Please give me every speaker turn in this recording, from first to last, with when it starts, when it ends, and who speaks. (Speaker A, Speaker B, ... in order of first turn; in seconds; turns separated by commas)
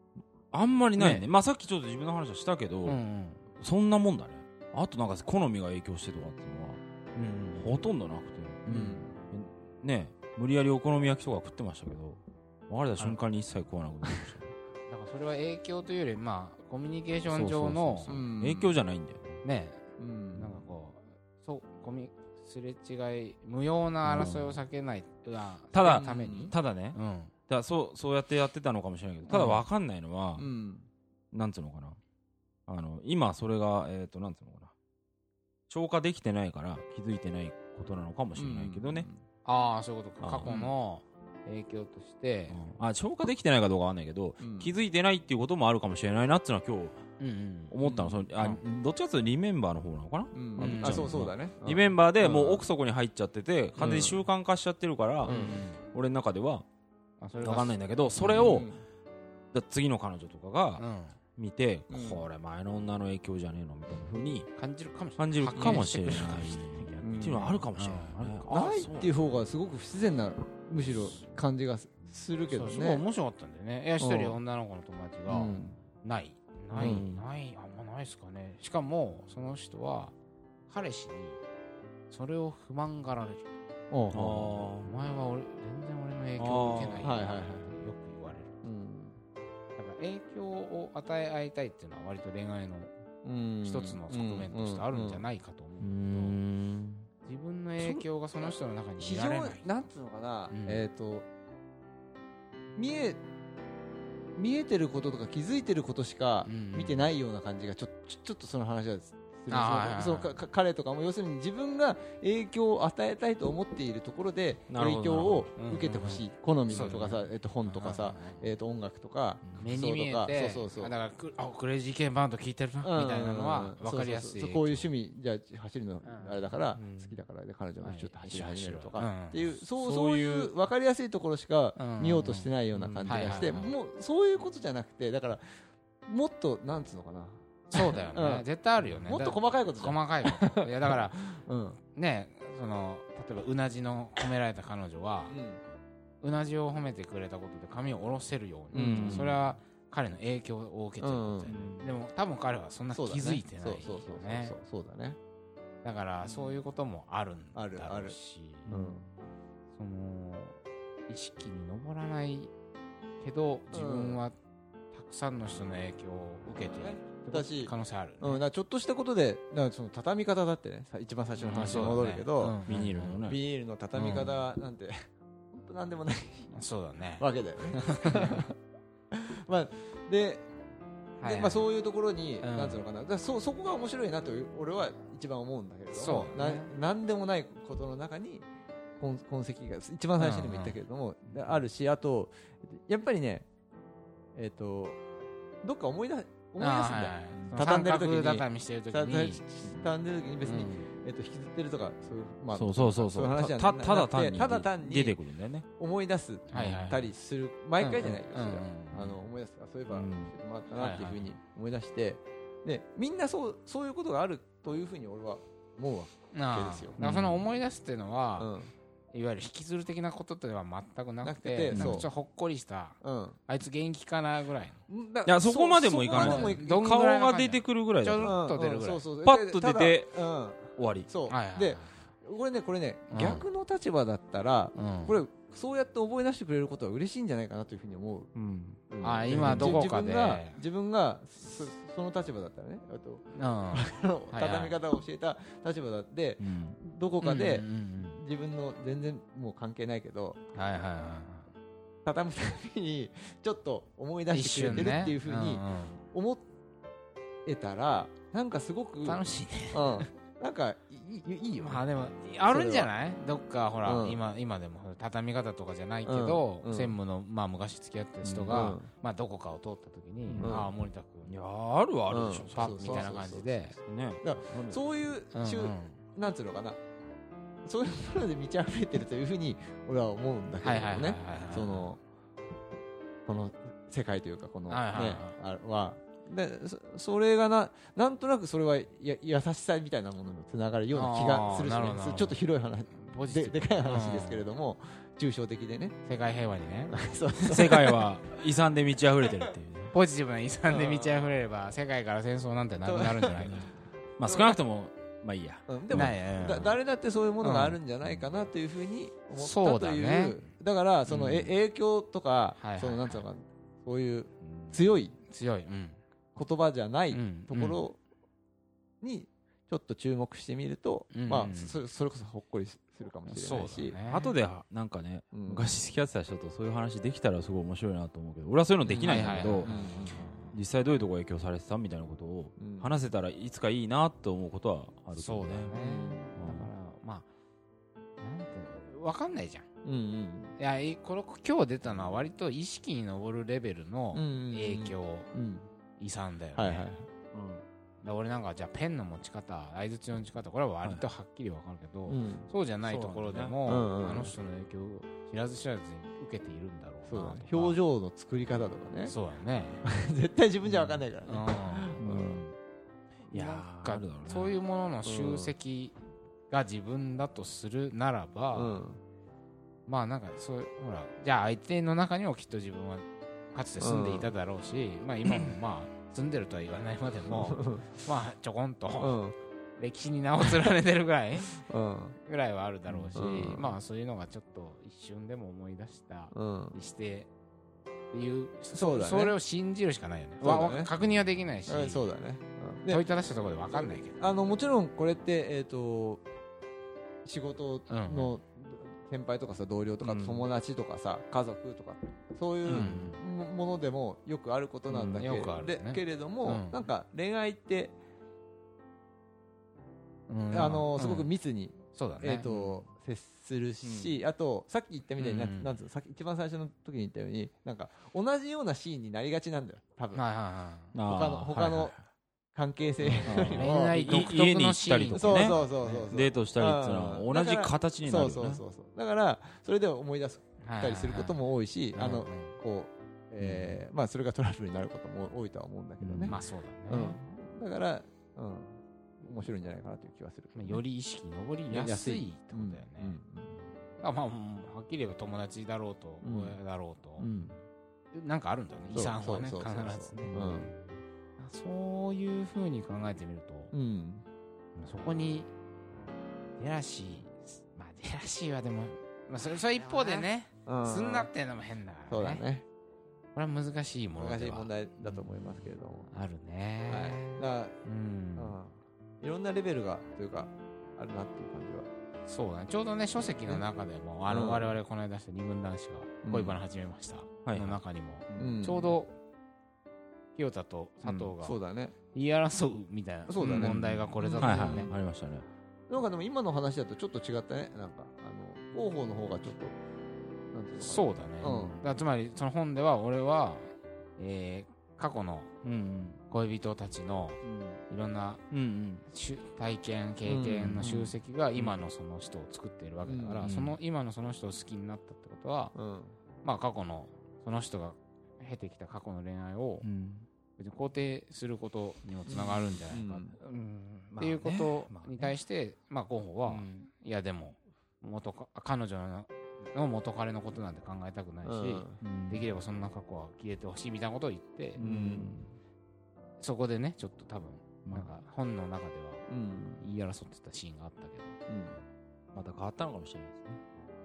Speaker A: 0.5-3.0, Speaker B: 1.0-1.2, Speaker B: 2.9-3.4, Speaker A: 3.6-6.8, Speaker B: 7.2-7.7, Speaker A: 7.5-14.5, Speaker C: 8.7-9.1, Speaker B: 14.9-18.2, Speaker A: 17.3-19.4, Speaker C: 18.1-18.7, Speaker B: 19.4-19.8, Speaker C: 20.0-20.5, Speaker B: 20.4-27.3, Speaker A: 24.0-24.6, Speaker A: 25.7-30.5, Speaker C: 25.8-26.5, Speaker B: 29.3-29.6, Speaker C: 30.4-30.9, Speaker A: 31.3-32.0, Speaker A: 32.7-34.7, Speaker A: 35.7-39.1, Speaker C: 38.4-39.2, Speaker B: 39.4-42.7, Speaker A: 40.2-40.6, Speaker A: 42.5-47.0, Speaker C: 44.4-44.7, Speaker B: 47.2-47.8, Speaker A: 47.7-56.6, Speaker C: 47.8-48.1, Speaker C: 50.3-52.6, Speaker B: 50.6-51.2, Speaker C: 53.8-54.3, Speaker C: 55.2-55.6, Speaker B: 55.2-55.8, Speaker B: 57.2-57.8, Speaker A: 57.4-58.7, Speaker C: 58.2-58.8, Speaker A: 59.5-60.8, Speaker B: 60.8-61.2, Speaker A: 61.4-64.5, Speaker C: 61.9-62.2, Speaker B: 64.5-68.3, Speaker A: 65.2-69.2, Speaker C: 65.5-65.9, Speaker C: 67.0-67.7, Speaker C: 68.5-73.0, Speaker B: 72.5-80.1, Speaker C: 74.0-74.4, Speaker C: 75.3-75.8, Speaker A: 76.7-77.2, Speaker C: 76.8-77.0, Speaker B: 80.7-81.4, Speaker B: 82.1-83.6, Speaker C: 83.9-84.7, Speaker A: 84.1-84.9, Speaker B: 84.8-88.6, Speaker A: 86.4-87.1, Speaker C: 87.0-87.7, Speaker C: 88.6-89.2, Speaker B: 89.8-92.9, Speaker C: 93.2-95.2, Speaker B: 93.6-96.4, Speaker A: 95.8-97.1, Speaker B: 97.2-99.6, Speaker C: 97.8-101.2, Speaker B: 100.5-100.8, Speaker C: 102.8-103.2, Speaker C: 104.4-120.9, Speaker B: 106.4-107.1, Speaker B: 109.5-110.4, Speaker A: 114.7-115.5, Speaker B: 115.6-118.4, Speaker B: 119.6-124.9, Speaker C: 122.8-138.4, Speaker B: 126.0-126.5, Speaker A: 126.8-127.2, Speaker B: 127.8-129.5, Speaker A: 129.8-130.5, Speaker B: 131.8-133.7, Speaker A: 132.7-133.5, Speaker B: 137.7-141.2, Speaker C: 139.0-141.8, Speaker B: 141.9-145.4, Speaker C: 145.3-145.6, Speaker B: 146.2-154.6, Speaker C: 148.7-149.4, Speaker A: 148.7-149.4, Speaker C: 151.0-151.5, Speaker A: 151.5-151.9, Speaker C: 152.9-155.2, Speaker B: 155.8-158.7, Speaker C: 156.2-156.6, Speaker C: 157.6-158.2, Speaker A: 158.7-159.1, Speaker C: 158.7-159.0, Speaker B: 159.7-162.5, Speaker B: 163.2-164.4, Speaker C: 163.7-164.2, Speaker B: 164.9-168.4, Speaker C: 166.8-174.9, Speaker B: 171.4-173.2, Speaker A: 171.5-171.9, Speaker A: 172.7-173.4, Speaker B: 174.0-174.3, Speaker C: 175.5-176.6, Speaker B: 176.5-178.4, Speaker C: 177.2-178.5, Speaker C: 179.1-180.5, Speaker B: 181.2-181.7, Speaker C: 181.2-188.5, Speaker B: 182.4-182.8, Speaker B: 185.9-186.7, Speaker C: 189.0-193.5, Speaker B: 190.2-190.8, Speaker C: 194.3-195.0, Speaker C: 195.6-205.2, Speaker B: 196.6-199.4, Speaker B: 200.4-200.9, Speaker A: 202.5-205.7, Speaker C: 205.8-216.9, Speaker B: 206.5-207.1, Speaker A: 206.6-206.8, Speaker B: 207.8-209.2, Speaker A: 209.9-210.3, Speaker B: 210.7-211.2, Speaker B: 216.3-218.5, Speaker A: 217.0-217.4, Speaker C: 218.4-218.7, Speaker B: 219.1-224.8, Speaker C: 221.2-222.1, Speaker A: 221.7-222.1, Speaker C: 223.0-223.4, Speaker C: 224.9-226.9, Speaker A: 225.2-228.4, Speaker B: 226.1-229.1, Speaker C: 228.2-238.3, Speaker A: 229.2-230.2, Speaker A: 230.7-231.1, Speaker B: 231.3-232.1, Speaker B: 233.1-233.4, Speaker B: 234.7-235.2, Speaker A: 238.3-239.8, Speaker C: 238.9-250.4, Speaker B: 239.0-240.6, Speaker B: 243.3-244.8, Speaker A: 246.4-246.8, Speaker B: 247.2-248.2, Speaker B: 250.5-251.5, Speaker C: 252.1-256.4, Speaker B: 254.3-256.0, Speaker C: 257.4-262.9, Speaker B: 259.1-260.1, Speaker B: 261.6-271.3, Speaker C: 263.8-264.2, Speaker C: 266.1-266.9, Speaker A: 268.2-268.6, Speaker C: 268.5-268.9, Speaker A: 270.3-270.6, Speaker C: 270.4-270.7, Speaker A: 271.3-273.2, Speaker C: 272.1-273.6, Speaker B: 272.4-273.8, Speaker A: 273.7-274.8, Speaker C: 274.2-276.8, Speaker B: 275.3-276.0, Speaker C: 277.6-282.0, Speaker B: 280.6-281.9, Speaker C: 283.2-295.9, Speaker B: 284.7-285.4, Speaker B: 290.9-292.4, Speaker B: 292.9-294.4, Speaker B: 296.1-296.9, Speaker C: 296.9-298.1, Speaker A: 297.4-299.9, Speaker B: 299.9-303.7, Speaker C: 300.7-301.3, Speaker C: 302.8-303.5, Speaker A: 304.2-306.1, Speaker C: 304.3-304.6, Speaker C: 305.7-315.1, Speaker B: 305.9-306.8, Speaker B: 307.4-307.8, Speaker B: 309.4-310.4, Speaker B: 311.1-311.5, Speaker B: 312.6-313.2, Speaker A: 314.4-314.8, Speaker B: 315.3-316.0, Speaker C: 316.4-318.0, Speaker B: 317.1-317.8, Speaker C: 319.0-324.0, Speaker B: 321.1-321.8, Speaker B: 323.3-324.4, Speaker A: 324.0-335.7, Speaker C: 325.3-325.7, Speaker C: 328.9-330.2, Speaker B: 328.9-330.6, Speaker C: 332.6-332.9, Speaker B: 335.1-337.3, Speaker C: 335.7-336.4, Speaker A: 336.4-336.7, Speaker B: 338.2-339.7, Speaker C: 339.8-340.6, Speaker B: 340.6-345.3, Speaker C: 344.1-345.7, Speaker B: 346.0-346.9, Speaker C: 346.6-347.1, Speaker A: 347.3-347.6, Speaker B: 348.0-357.8, Speaker C: 352.1-352.5, Speaker A: 352.9-353.6, Speaker C: 353.6-354.3, Speaker C: 357.1-359.1, Speaker B: 359.1-359.9, Speaker C: 359.8-362.4, Speaker A: 360.6-361.0, Speaker B: 361.2-362.0, Speaker A: 362.0-362.6, Speaker B: 363.3-365.9, Speaker A: 363.3-364.6, Speaker C: 365.1-365.5, Speaker B: 366.5-368.8, Speaker C: 368.5-369.0, Speaker B: 369.9-379.2, Speaker C: 373.8-374.3, Speaker C: 377.3-377.9, Speaker C: 379.0-379.4, Speaker B: 379.8-381.5, Speaker C: 380.4-380.7, Speaker C: 381.5-382.1, Speaker B: 382.2-387.3, Speaker C: 383.1-383.8, Speaker C: 386.3-386.8, Speaker B: 388.1-392.1, Speaker C: 388.7-389.4, Speaker C: 390.4-390.9, Speaker C: 391.7-393.0, Speaker B: 392.9-394.2, Speaker C: 393.7-396.2, Speaker C: 397.2-407.9, Speaker B: 397.9-398.4, Speaker A: 400.0-400.5, Speaker B: 402.6-403.2, Speaker A: 402.6-403.1, Speaker A: 404.9-405.3, Speaker B: 405.2-406.9, Speaker B: 410.3-411.3, Speaker C: 410.5-420.2, Speaker B: 411.9-412.5, Speaker A: 413.8-414.1, Speaker B: 415.2-415.7, Speaker B: 420.1-420.9, Speaker A: 420.9-422.1, Speaker C: 421.1-421.9, Speaker C: 422.5-424.2, Speaker B: 423.0-426.1, Speaker A: 423.2-428.6, Speaker C: 425.1-440.8, Speaker B: 430.6-431.4, Speaker B: 431.9-432.6, Speaker A: 433.4-433.8, Speaker A: 436.0-436.4, Speaker B: 436.3-437.2, Speaker B: 440.5-443.2, Speaker C: 441.7-443.6, Speaker B: 444.0-447.3, Speaker C: 446.2-446.6, Speaker C: 447.2-447.5, Speaker B: 448.1-453.7, Speaker C: 448.9-450.7, Speaker A: 450.2-450.6, Speaker C: 453.7-454.2, Speaker B: 454.8-455.5, Speaker B: 456.6-462.4, Speaker C: 459.9-461.3, Speaker C: 462.1-462.6, Speaker B: 463.4-468.6, Speaker C: 464.2-466.1, Speaker C: 466.9-467.8, Speaker C: 468.4-471.9, Speaker B: 472.3-479.1, Speaker C: 474.3-474.7, Speaker C: 476.2-476.6, Speaker A: 477.4-477.8, Speaker C: 478.3-478.9, Speaker B: 480.4-481.6, Speaker A: 481.0-481.3, Speaker C: 481.4-481.9, Speaker B: 482.1-484.9, Speaker C: 483.3-484.9, Speaker A: 483.4-485.4, Speaker C: 485.9-489.7, Speaker C: 490.5-491.8, Speaker B: 490.8-495.5, Speaker A: 491.4-491.8, Speaker A: 495.6-496.2, Speaker B: 496.3-498.4, Speaker A: 497.4-497.8, Speaker A: 498.5-499.1, Speaker B: 499.1-505.7, Speaker C: 500.2-501.1, Speaker A: 500.6-500.9, Speaker C: 503.1-503.4, Speaker A: 503.4-503.8, Speaker C: 505.7-506.1, Speaker B: 506.4-509.9, Speaker A: 509.8-510.3, Speaker B: 510.6-513.3, Speaker C: 512.3-513.4, Speaker A: 513.4-515.4, Speaker B: 514.2-524.8, Speaker A: 516.5-516.9, Speaker C: 521.4-522.0, Speaker A: 522.0-522.5, Speaker A: 524.8-525.5, Speaker C: 524.8-525.4, Speaker B: 526.4-529.3, Speaker C: 529.3-529.8, Speaker B: 529.8-531.4, Speaker C: 531.5-531.8, Speaker A: 532.3-533.6